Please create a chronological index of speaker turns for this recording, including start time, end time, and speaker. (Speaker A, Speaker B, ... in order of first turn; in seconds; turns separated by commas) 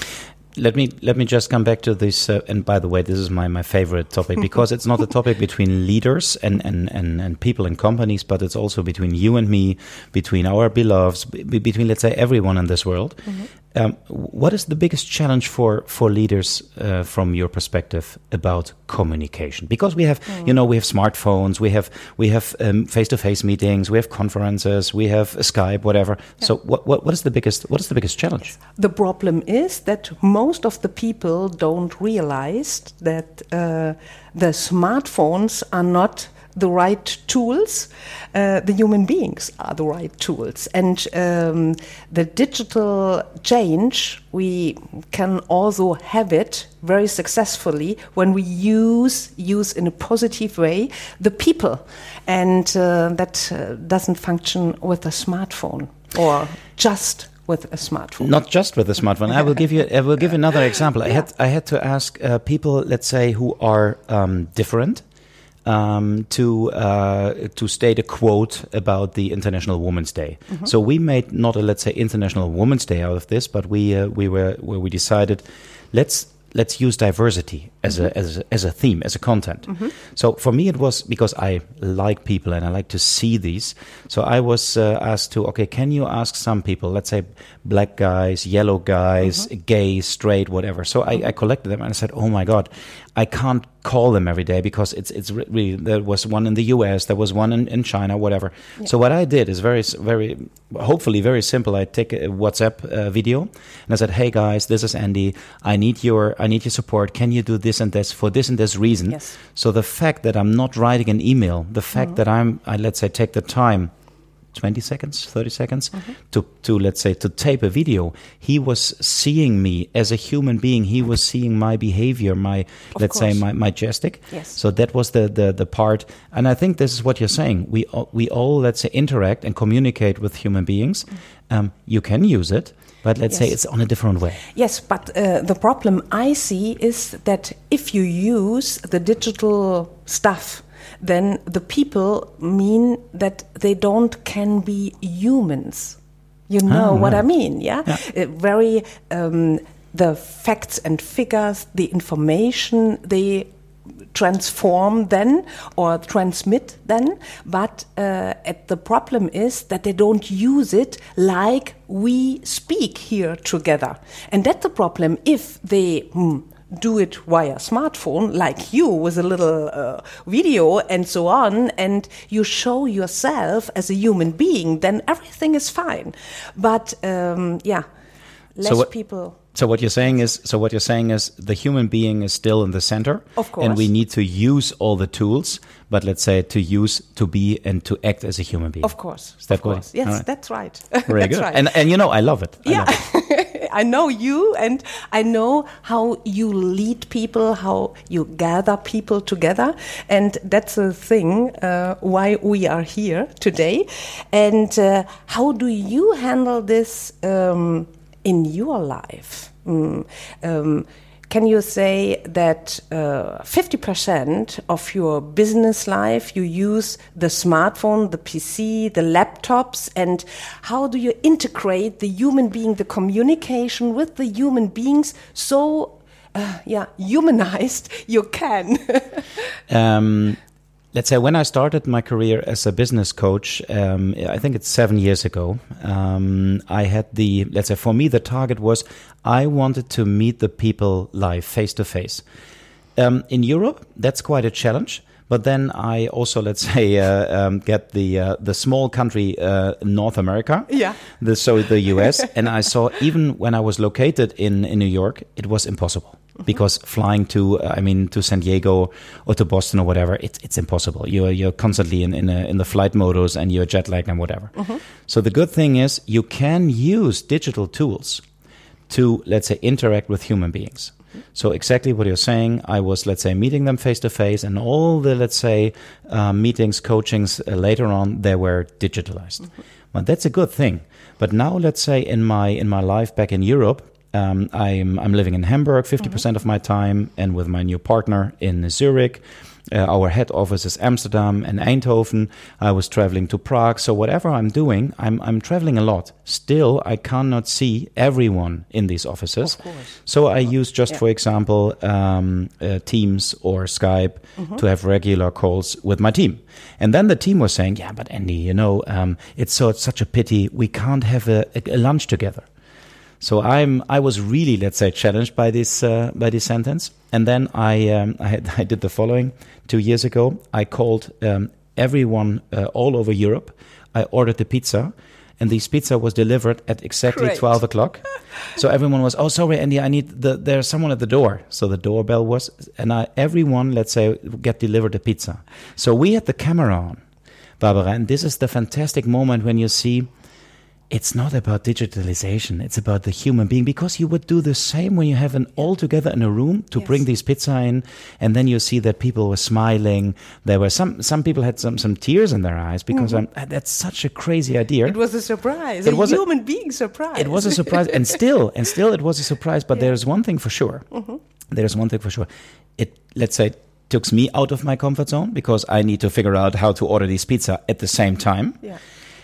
Speaker A: 0.6-28.6, Speaker B: 28.7-58.3, Speaker A: 58.2-65.0, Speaker A: 65.6-113.9, Speaker B: 109.1-109.3, Speaker A: 114.5-134.4, Speaker B: 122.9-123.4, Speaker B: 124.3-124.6, Speaker B: 134.5-146.0, Speaker B: 146.5-153.5, Speaker A: 146.7-147.2, Speaker B: 154.1-177.8, Speaker B: 178.6-179.4, Speaker A: 178.6-190.2, Speaker B: 183.4-183.9, Speaker B: 188.8-191.7, Speaker A: 191.1-192.9, Speaker B: 192.6-229.4, Speaker A: 229.7-230.4, Speaker A: 230.9-242.2, Speaker A: 242.9-268.2, Speaker B: 250.7-251.0, Speaker A: 268.9-312.4, Speaker B: 299.6-299.9, Speaker A: 313.2-337.0, Speaker B: 327.1-327.4, Speaker A: 337.6-340.1, Speaker A: 340.9-355.0, Speaker B: 354.9-358.0, Speaker A: 355.8-356.2, Speaker A: 357.1-360.9, Speaker A: 361.5-368.6